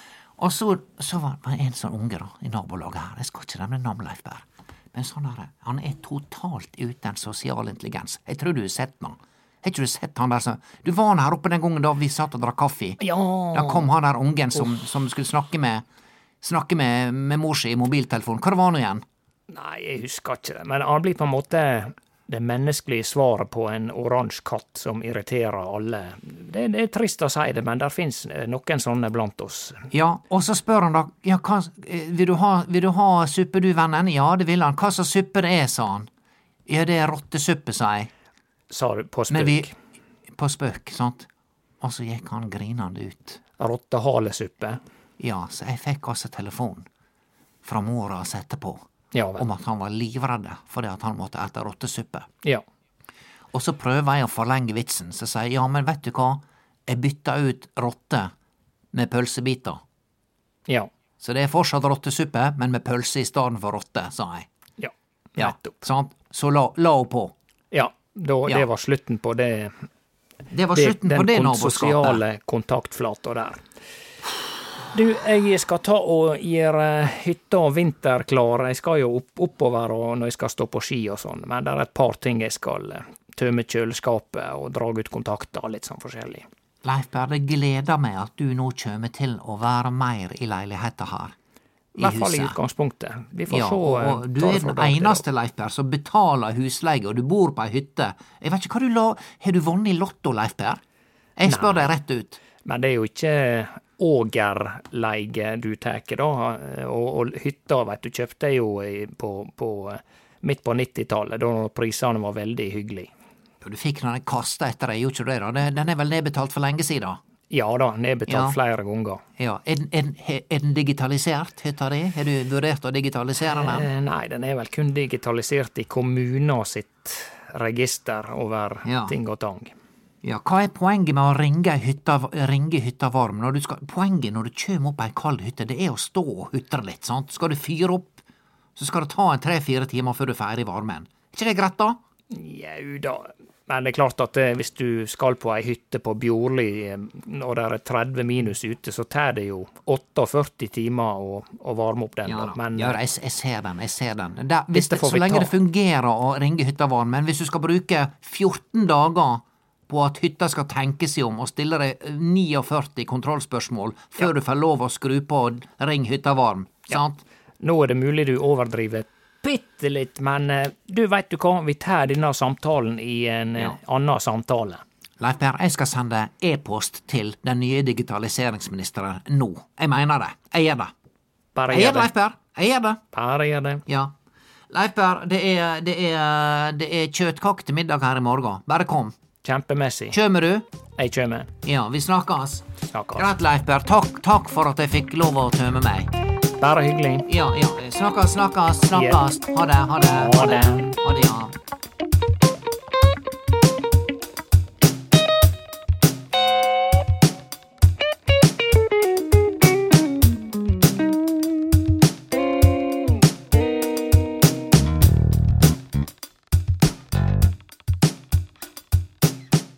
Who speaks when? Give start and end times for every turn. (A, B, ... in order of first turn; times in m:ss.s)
0:00.4-0:15.8 A
0:13.0-0:13.9 B
0:16.4-0:19.0 A
0:19.5-0:29.9 B
0:29.9-0:36.1 A
0:36.7-0:38.1 A
0:38.7-0:39.7 B
0:39.3-0:39.7 A
0:40.3-0:41.3 A
0:41.8-0:43.4 A
0:43.6-0:44.8 B
0:45.2-0:46.9 A
0:47.6-0:48.8 A
0:49.1-0:49.4 B
0:49.4-0:52.3 A
0:53.5-0:58.3 A
0:58.9-0:59.8 A
1:01.2-1:04.5 A
1:04.8-1:05.8 B
1:05.4-1:07.3 A
1:07.7-1:09.9 B
1:10.5-1:12.2 A
1:10.7-1:13.6 B
1:14.9-1:26.4 B
1:26.8-1:31.3 A
1:32.0-1:35.2 B
1:32.0-1:32.6 A
1:33.5-1:40.8 A
1:41.4-1:42.4 A
1:41.4-1:41.9 B
1:42.6-1:53.1 B
1:53.6-1:57.2 A
1:57.5-1:59.2 B
1:58.3-1:58.6 A
1:59.4-2:03.9 A
2:03.4-2:09.7 B
2:08.8-2:09.2 A
2:10.2-2:18.2 A
2:18.8-2:22.0 A
2:22.3-2:33.0 B
2:32.2-2:47.2 A
2:34.7-2:35.5 B
2:47.6-2:54.8 B
2:55.2-3:00.9 A
3:01.5-3:02.1 B
3:01.7-3:03.0 A
3:03.1-3:03.8 B
3:03.8-3:04.1 A
3:04.7-3:09.2 A
3:09.4-3:10.2 B
3:10.1-3:10.7 A
3:11.0-3:11.5 B
3:11.6-3:16.1 A
3:12.9-3:13.3 B
3:16.6-3:17.3 B
3:17.3-3:21.6 A
3:18.9-3:19.2 B
3:20.1-3:21.0 B